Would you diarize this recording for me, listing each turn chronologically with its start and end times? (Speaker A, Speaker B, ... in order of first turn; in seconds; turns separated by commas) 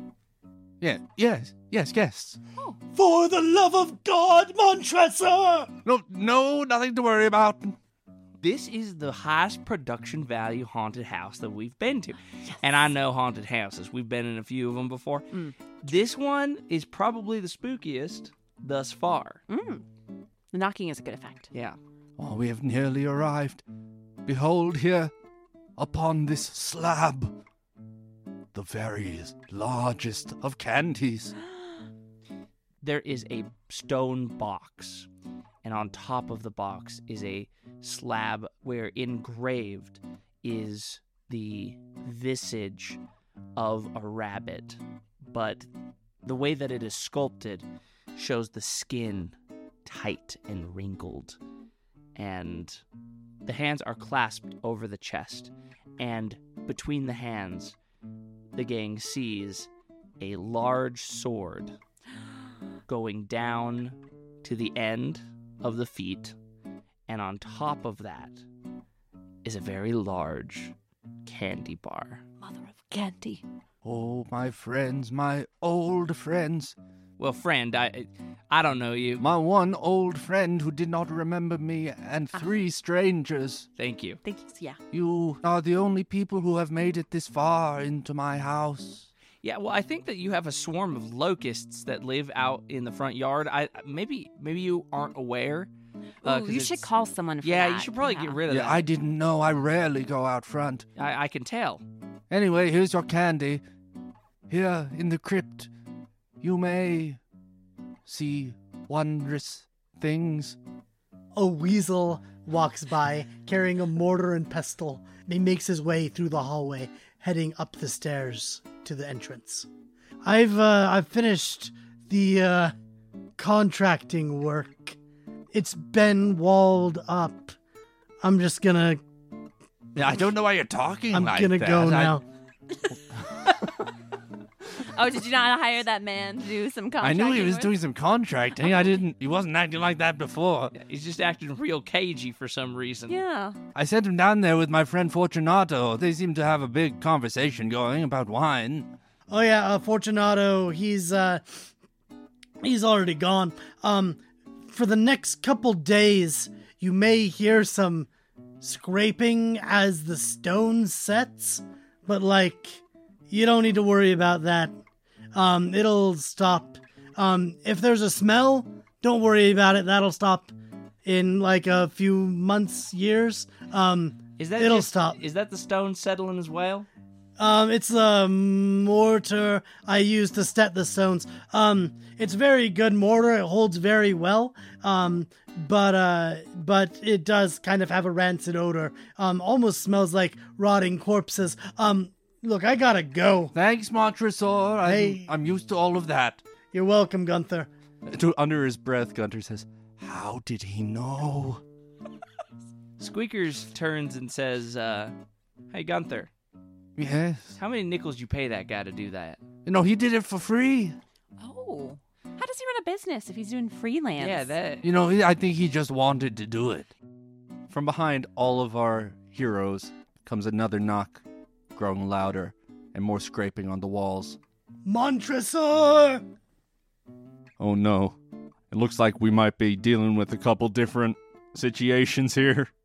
Speaker A: 0.8-2.4, Speaker B: 2.9-5.7, Speaker A: 5.8-7.8, Speaker C: 8.4-15.3, Speaker D: 12.5-12.9, Speaker C: 15.8-19.4, Speaker D: 19.5-19.9, Speaker D: 20.5-21.5, Speaker C: 21.5-21.8, Speaker A: 22.2-23.6, Speaker A: 24.3-25.1, Speaker A: 25.8-27.4, Speaker A: 28.5-31.3, Speaker C: 32.8-35.1, Speaker C: 35.6-43.0, Speaker C: 43.6-45.7, Speaker C: 46.2-49.3, Speaker C: 49.9-51.4, Speaker C: 52.2-52.8, Speaker C: 53.5-57.8, Speaker C: 58.5-59.7, Speaker C: 60.2-61.8, Speaker C: 62.9-66.4, Speaker C: 67.1-68.4, Speaker C: 69.4-70.8, Speaker C: 71.3-72.2, Speaker D: 72.4-73.4, Speaker A: 73.8-76.8, Speaker C: 77.2-79.2, Speaker A: 79.2-83.7, Speaker C: 83.8-84.2, Speaker D: 84.2-84.8, Speaker A: 84.9-89.1, Speaker C: 89.4-95.7, Speaker C: 96.2-96.9, Speaker D: 96.2-98.4, Speaker C: 97.4-98.9, Speaker A: 98.5-100.9, Speaker C: 101.0-101.8, Speaker A: 102.3-103.6, Speaker A: 104.5-105.7, Speaker A: 106.4-107.2, Speaker A: 108.1-110.6, Speaker B: 111.3-119.7, Speaker B: 120.2-122.8, Speaker B: 123.4-125.0, Speaker B: 125.5-127.6, Speaker B: 128.2-129.0, Speaker A: 129.9-132.2, Speaker B: 131.1-132.2, Speaker D: 134.9-137.7, Speaker A: 137.0-140.7, Speaker D: 138.6-138.9, Speaker C: 140.8-143.2, Speaker D: 143.1-143.6, Speaker A: 143.8-148.9, Speaker B: 149.3-151.7, Speaker B: 152.6-158.1, Speaker B: 158.6-164.8, Speaker B: 165.3-170.5, Speaker B: 171.1-175.2, Speaker C: 174.4-176.9, Speaker B: 177.4-193.6, Speaker A: 193.6-196.4, Speaker B: 194.8-195.3, Speaker B: 196.7-197.7, Speaker A: 198.1-201.6, Speaker C: 203.0-205.2, Speaker C: 205.7-206.3, Speaker A: 207.0-207.6, Speaker C: 207.6-209.4, Speaker A: 209.7-211.0, Speaker D: 211.4-214.5, Speaker C: 214.2-214.8, Speaker A: 214.8-216.9, Speaker A: 217.7-221.2, Speaker A: 221.7-224.4, Speaker B: 224.8-226.2, Speaker A: 227.6-228.2, Speaker A: 228.7-232.7